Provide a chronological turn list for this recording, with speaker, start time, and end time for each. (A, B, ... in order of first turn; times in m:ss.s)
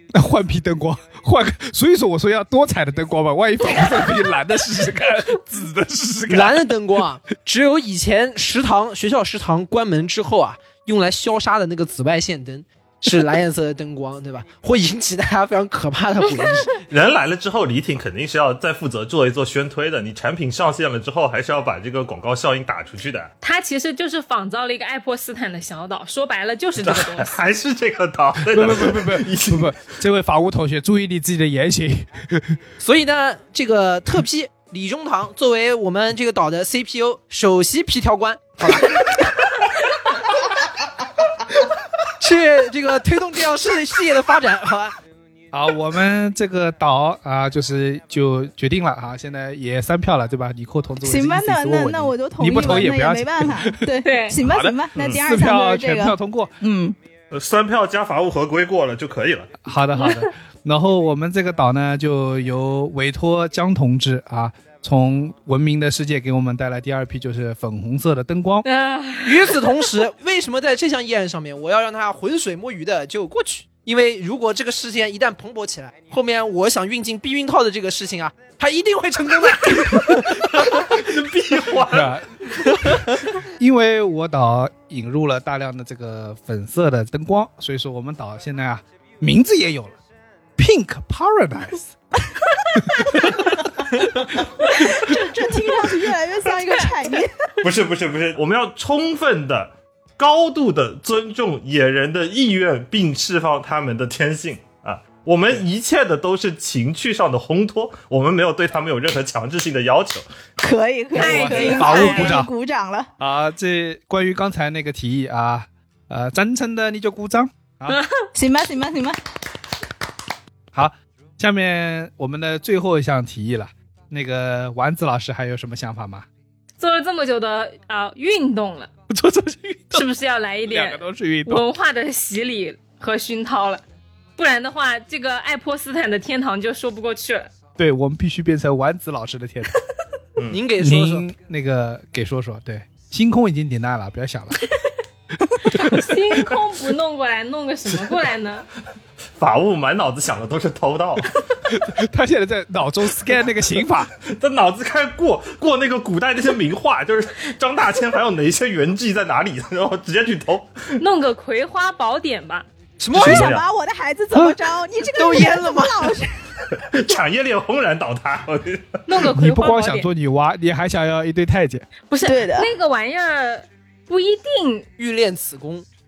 0:00.1-0:06.8 A
0:06.3-0:16.8 B
0:16.9-0:23.3 C
0:23.4-0:27.4 D
0:26.8-0:29.7 C
0:28.5-0:32.6 A
0:32.8-0:39.3 B
0:42.2-0:45.0 B
0:45.5-0:56.5 A
0:51.0-0:57.0 E
0:54.0-0:54.4 D
0:55.0-0:55.2 C
0:57.3-0:59.5 C
0:59.6-1:08.6 A
1:08.6-1:09.6 D
1:09.2-1:20.8 B
1:20.7-1:22.1 C
1:21.7-1:23.0 A
1:23.6-1:30.0 A
1:30.6-1:31.8 A
1:32.9-1:33.4 A
1:34.7-1:37.4 E
1:37.6-1:50.2 C
1:50.6-1:53.1 E
1:51.2-1:52.4 D
1:51.2-1:52.5 A
1:53.2-1:58.0 A
1:58.3-1:59.2 E
2:00.7-2:06.3 A
2:06.8-2:08.9 D
2:09.1-2:10.1 A
2:09.9-2:13.8 D
2:10.6-2:11.6 A
2:14.4-2:17.5 D
2:17.8-2:19.8 A
2:20.5-2:21.2 B
2:20.8-2:24.7 A
2:25.4-2:26.6 A
2:25.8-2:28.6 D
2:29.4-2:31.4 C
2:31.7-2:34.1 A
2:34.2-2:41.0 C
2:41.0-2:42.6 D
2:43.0-2:43.5 B
2:43.1-2:43.6 C
2:43.1-2:46.4 E
2:45.1-2:46.2 B
2:46.7-2:49.0 C
2:49.1-2:50.1 D
2:49.3-2:51.8 A
2:52.1-2:54.9 D
2:52.2-2:52.7 E
2:55.0-2:55.8 B